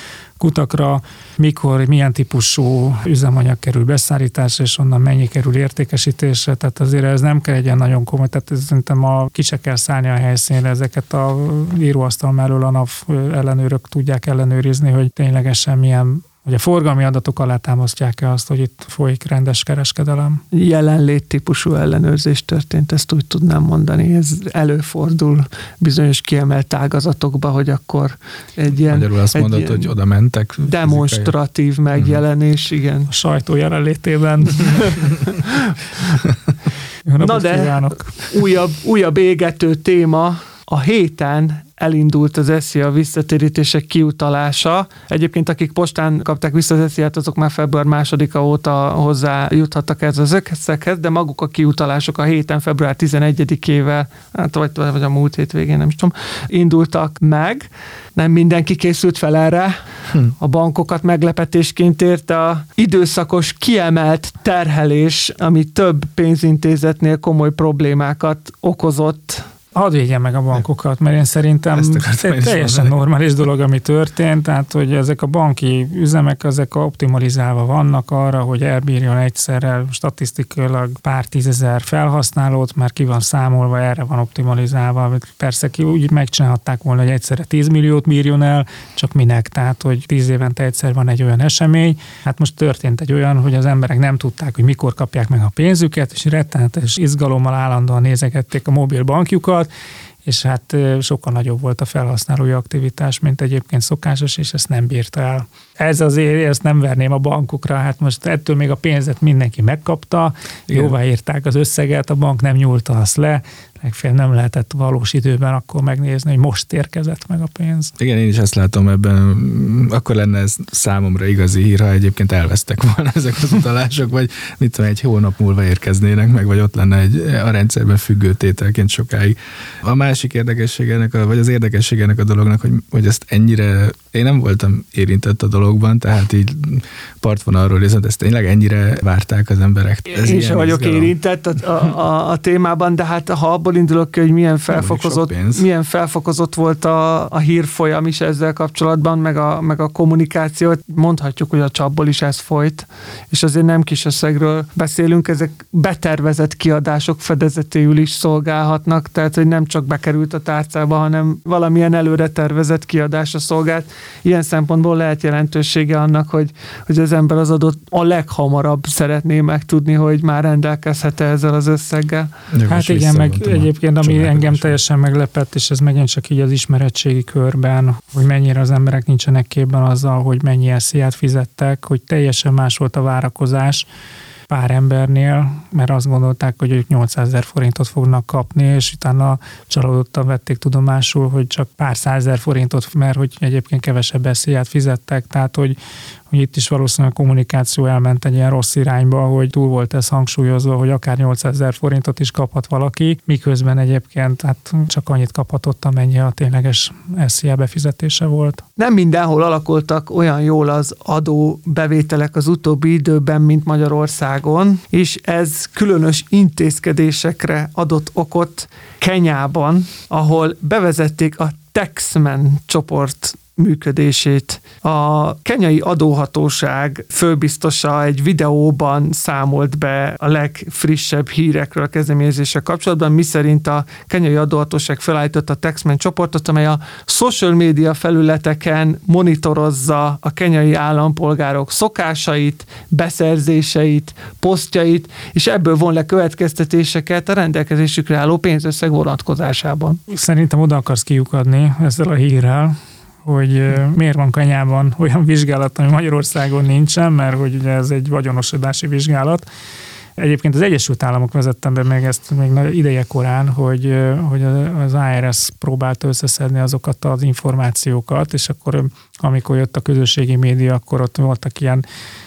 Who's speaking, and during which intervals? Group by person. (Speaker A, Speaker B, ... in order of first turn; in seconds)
Speaker A: 0.4-20.4, 33.1-35.0, 37.0-38.1, 69.7-99.7, 100.2-117.9, 172.7-183.9, 184.5-195.8, 196.3-208.6, 250.1-259.4, 260.2-271.8
Speaker B: 20.5-29.9, 30.6-33.1, 37.2-69.4, 140.1-172.3, 208.8-250.0
Speaker C: 28.9-31.3, 71.7-73.0, 118.0-141.1, 144.7-145.7, 172.5-174.8